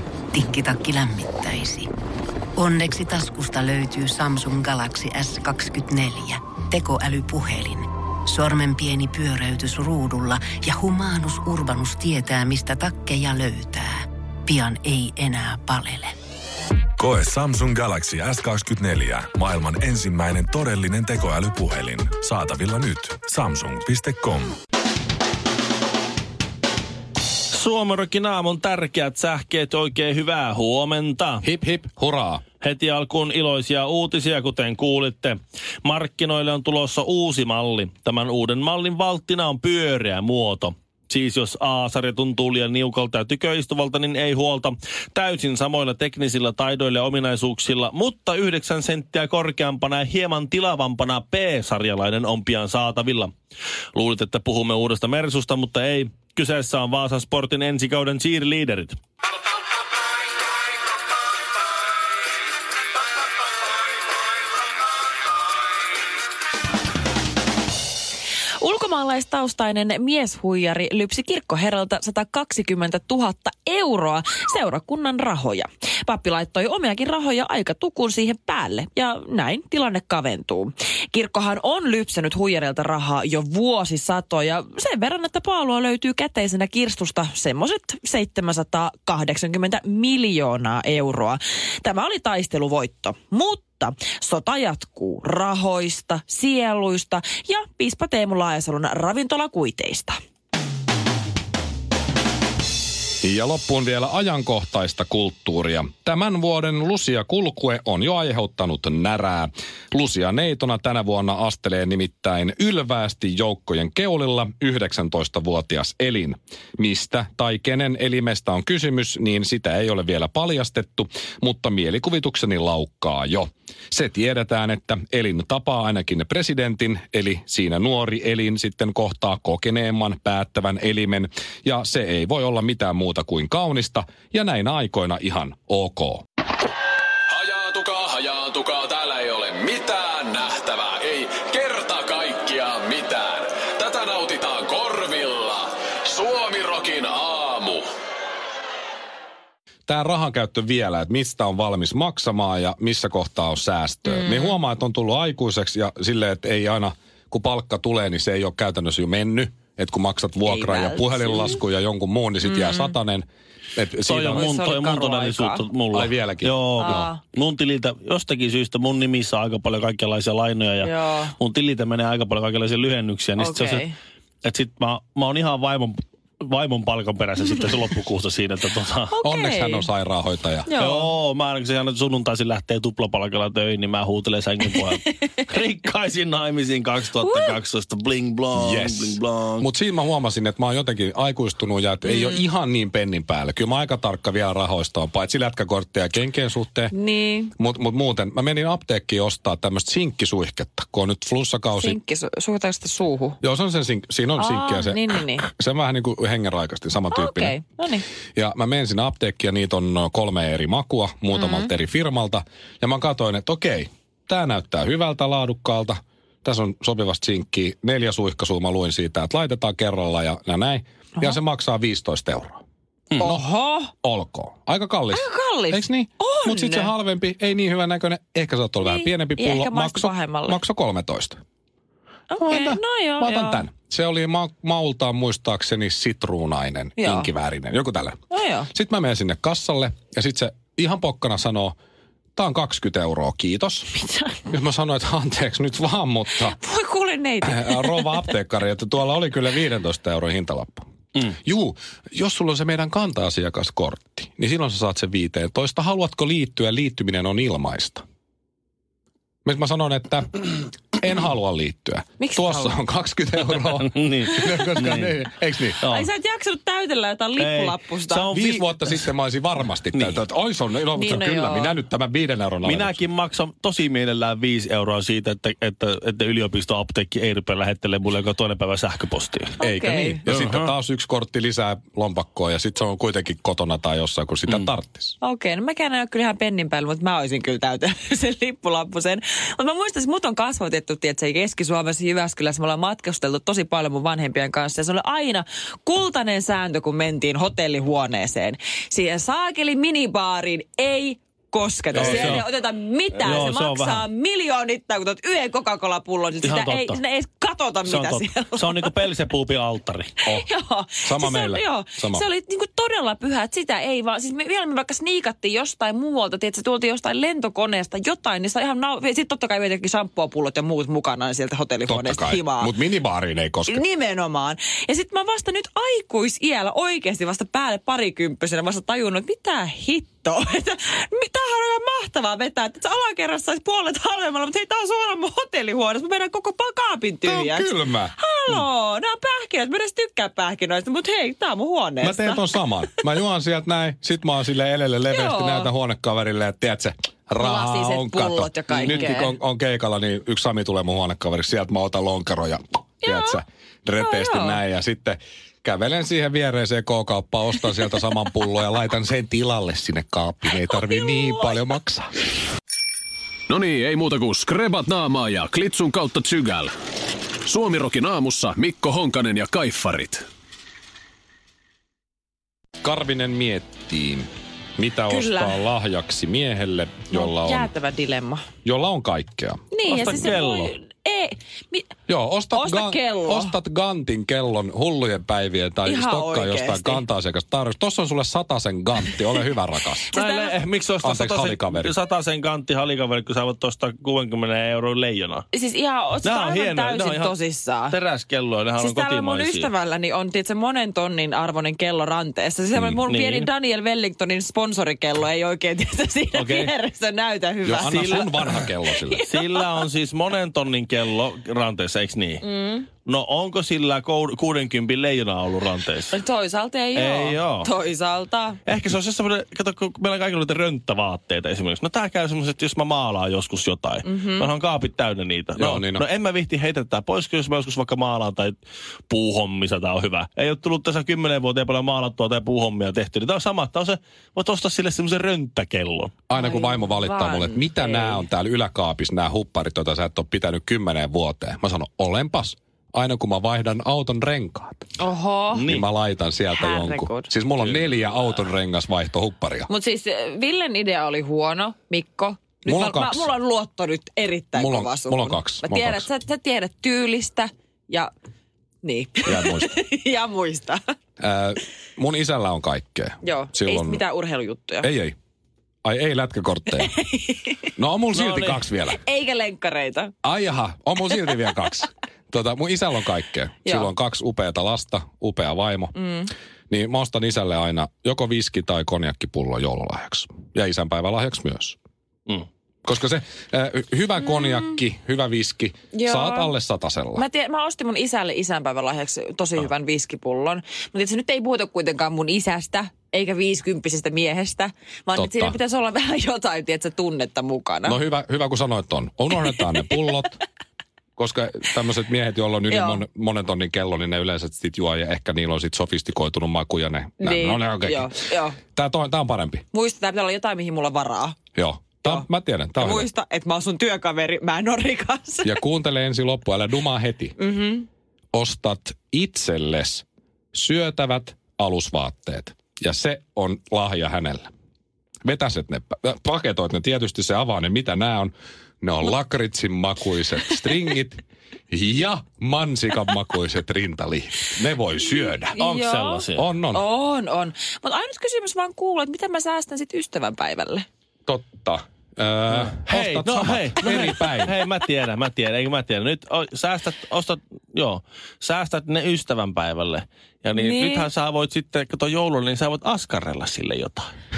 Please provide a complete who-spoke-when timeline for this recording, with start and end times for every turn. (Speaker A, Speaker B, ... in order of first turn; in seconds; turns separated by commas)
Speaker A: 0.3-1.9, Speaker A: 2.5-16.1, Speaker B: 17.0-24.5, Speaker C: 27.5-31.4, Speaker D: 31.4-32.4, Speaker C: 32.6-53.3, Speaker C: 53.9-59.0, Speaker E: 68.6-100.2, Speaker D: 103.2-136.2, Speaker F: 137.3-147.8, Speaker D: 149.9-164.5, Speaker E: 154.1-154.6, Speaker E: 160.4-161.6, Speaker E: 162.4-162.9, Speaker C: 164.1-173.9, Speaker E: 164.3-165.6, Speaker D: 165.9-167.1, Speaker E: 166.8-167.2, Speaker E: 170.8-171.3, Speaker E: 173.4-173.9, Speaker C: 174.4-179.1, Speaker E: 179.1-179.9, Speaker D: 179.2-180.7, Speaker E: 180.7-181.1, Speaker C: 180.8-189.7, Speaker E: 187.2-187.5, Speaker D: 188.5-196.9, Speaker E: 192.0-192.4, Speaker E: 196.9-197.5, Speaker D: 197.6-202.0, Speaker E: 201.7-203.4, Speaker D: 203.4-207.6, Speaker E: 204.4-205.4, Speaker E: 207.1-208.0, Speaker D: 208.3-222.6, Speaker E: 211.3-211.7, Speaker E: 223.2-223.9, Speaker D: 223.2-223.4, Speaker D: 224.0-231.4, Speaker E: 225.1-226.9, Speaker E: 228.8-230.6, Speaker E: 232.3-233.7, Speaker D: 232.4-238.2, Speaker E: 237.0-237.3, Speaker E: 238.3-238.7, Speaker D: 238.7-241.7, Speaker D: 242.3-243.9, Speaker E: 243.9-244.4, Speaker D: 244.5-246.6, Speaker E: 246.3-248.3, Speaker D: 247.4-258.0, Speaker D: 259.4-265.8, Speaker E: 262.2-262.8, Speaker C: 263.6-265.1, Speaker E: 264.4-264.8, Speaker C: 265.8-266.1, Speaker E: 265.8-268.3, Speaker C: 267.4-269.0, Speaker D: 268.3-273.0, Speaker C: 269.9-270.2, Speaker E: 270.9-271.8, Speaker C: 272.6-279.6, Speaker E: 279.6-280.2, Speaker D: 279.6-285.2, Speaker C: 280.2-280.7, Speaker E: 285.2-308.9, Speaker D: 301.9-302.4, Speaker C: 301.9-302.4, Speaker C: 303.2-304.1, Speaker C: 306.4-307.0, Speaker C: 307.8-310.1, Speaker E: 310.2-322.7, Speaker D: 311.0-312.2, Speaker D: 321.9-323.8, Speaker E: 323.7-342.5, Speaker D: 337.2-338.1, Speaker D: 342.0-362.1, Speaker E: 345.1-345.7, Speaker E: 347.4-349.3, Speaker E: 353.0-353.4, Speaker E: 354.0-354.6, Speaker E: 360.7-361.6, Speaker F: 363.5-366.7, Speaker F: 367.4-370.2, Speaker D: 372.8-377.7, Speaker E: 375.1-375.6, Speaker E: 377.1-378.4, Speaker D: 378.6-379.6, Speaker E: 379.7-381.9, Speaker C: 379.9-380.7, Speaker D: 382.1-390.1, Speaker E: 382.5-383.6, Speaker E: 385.8-387.0, Speaker E: 390.1-390.6, Speaker C: 390.1-395.4, Speaker D: 391.0-391.9, Speaker E: 395.5-397.9, Speaker C: 396.2-397.3, Speaker C: 397.9-399.7, Speaker E: 398.8-409.6, Speaker C: 403.1-403.5, Speaker C: 406.3-406.7, Speaker D: 407.6-409.2, Speaker C: 407.8-408.2, Speaker C: 409.3-412.4, Speaker E: 412.4-412.9, Speaker C: 413.0-416.1, Speaker E: 416.1-418.6, Speaker C: 416.9-417.7, Speaker C: 418.6-428.6, Speaker E: 424.0-424.5, Speaker D: 425.6-426.0, Speaker C: 429.1-436.1, Speaker D: 436.3-444.9, Speaker E: 436.3-438.2, Speaker E: 445.0-445.7, Speaker C: 445.5-445.8, Speaker D: 445.6-449.7, Speaker E: 446.5-447.3, Speaker C: 447.6-448.0, Speaker E: 449.7-458.1, Speaker D: 452.6-453.3, Speaker D: 454.5-456.1, Speaker E: 458.8-460.8, Speaker D: 459.2-459.7, Speaker D: 461.2-464.0, Speaker E: 463.2-464.9, Speaker D: 464.8-465.1, Speaker D: 465.8-466.9, Speaker E: 466.7-467.7, Speaker D: 467.8-469.0, Speaker C: 468.1-468.6, Speaker E: 468.9-470.1, Speaker D: 470.2-476.0, Speaker E: 471.1-471.6, Speaker E: 473.6-473.9, Speaker E: 475.9-476.3, Speaker D: 476.7-481.8, Speaker D: 482.8-487.2, Speaker E: 485.9-486.5, Speaker E: 487.1-498.0, Speaker D: 495.1-495.6, Speaker D: 497.8-500.4, Speaker E: 499.6-500.0, Speaker D: 501.2-508.1, Speaker E: 502.7-503.0, Speaker E: 507.2-508.6, Speaker D: 508.7-509.6, Speaker E: 509.7-511.4, Speaker D: 511.6-513.1, Speaker E: 512.8-515.6, Speaker D: 515.4-517.4, Speaker E: 517.4-517.9, Speaker D: 518.3-524.5, Speaker D: 525.2-535.6, Speaker E: 535.4-540.9, Speaker C: 535.6-536.5, Speaker D: 536.4-536.8, Speaker D: 541.3-544.5, Speaker C: 542.5-554.1, Speaker E: 550.5-551.1